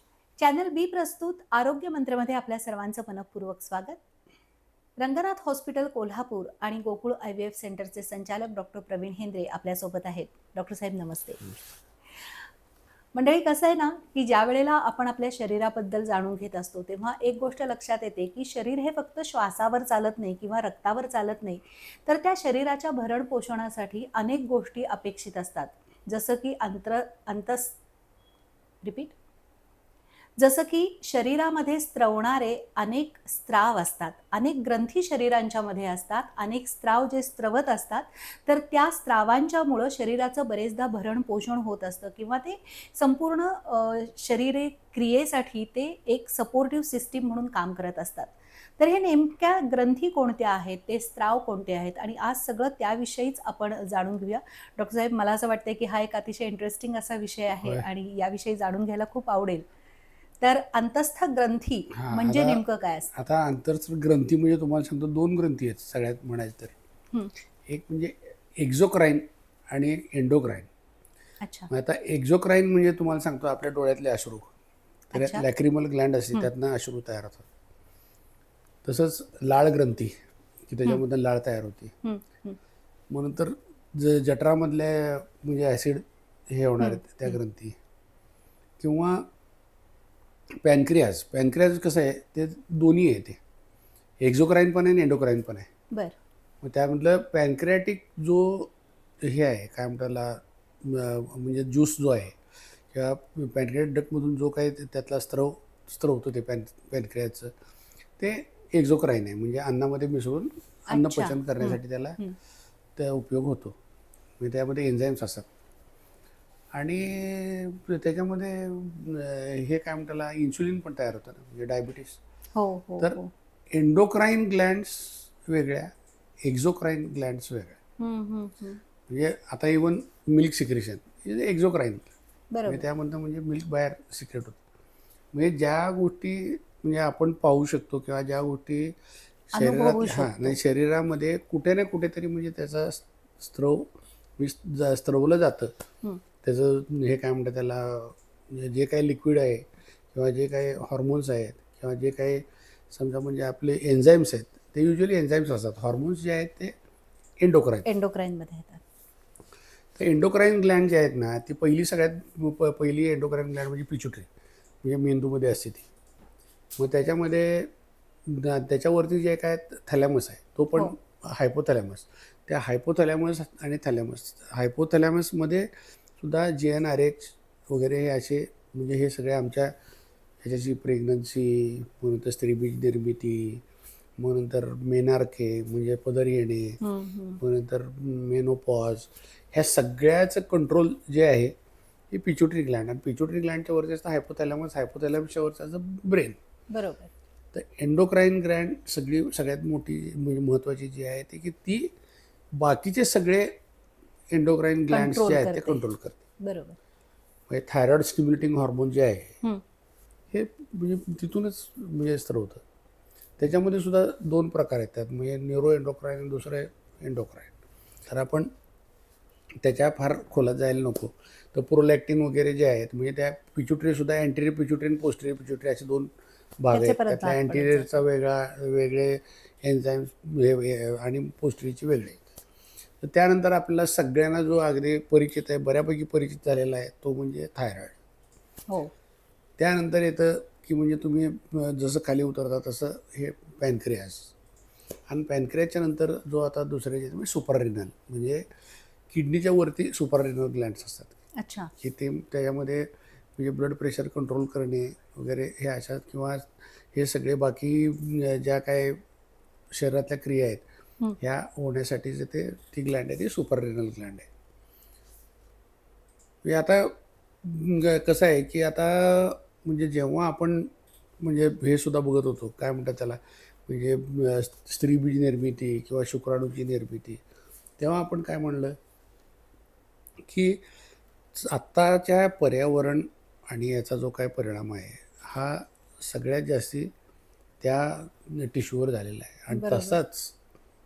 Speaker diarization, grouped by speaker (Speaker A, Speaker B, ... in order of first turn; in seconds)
Speaker A: 0.4-4.0, 5.0-11.6, 13.1-27.8, 28.8-29.1, 30.4-59.7, 60.4-63.1, 71.4-71.7, 75.1-75.4, 82.0-82.6, 86.8-87.4, 110.9-112.3, 122.5-123.3, 128.0-128.8, 132.5-132.8, 139.5-140.6, 157.8-158.8, 186.8-187.4, 196.7-197.1, 204.9-205.8, 206.4-206.8, 226.7-227.9, 251.4-251.7, 289.5-290.0
Speaker B: 61.9-66.7, 67.6-70.7, 71.7-74.5, 75.1-77.5, 78.8-81.9, 83.1-87.8, 88.8-89.3, 90.6-93.4, 94.2-95.7, 96.6-102.4, 102.9-107.5, 108.2-112.2, 113.0-113.8, 114.4-115.5, 116.7-122.2, 123.7-125.9, 126.4-127.8, 129.1-132.1, 132.7-134.6, 135.3-139.0, 139.5-145.7, 146.4-156.7, 157.4-157.8, 159.9-164.3, 164.8-165.8, 166.8-167.7, 168.2-179.7, 180.4-183.6, 184.2-186.8, 187.4-191.5, 192.1-196.4, 197.5-201.9, 202.5-203.6, 204.3-206.2, 207.5-209.4, 210.3-212.6, 213.4-217.5, 218.1-218.5, 219.6-232.2, 233.0-238.0, 239.6-244.3, 245.1-248.4, 249.1-251.1, 251.8-259.0, 259.7-260.6, 261.2-264.3, 266.4-277.2, 277.8-278.8, 280.2-280.6, 281.3-286.9, 287.6-290.3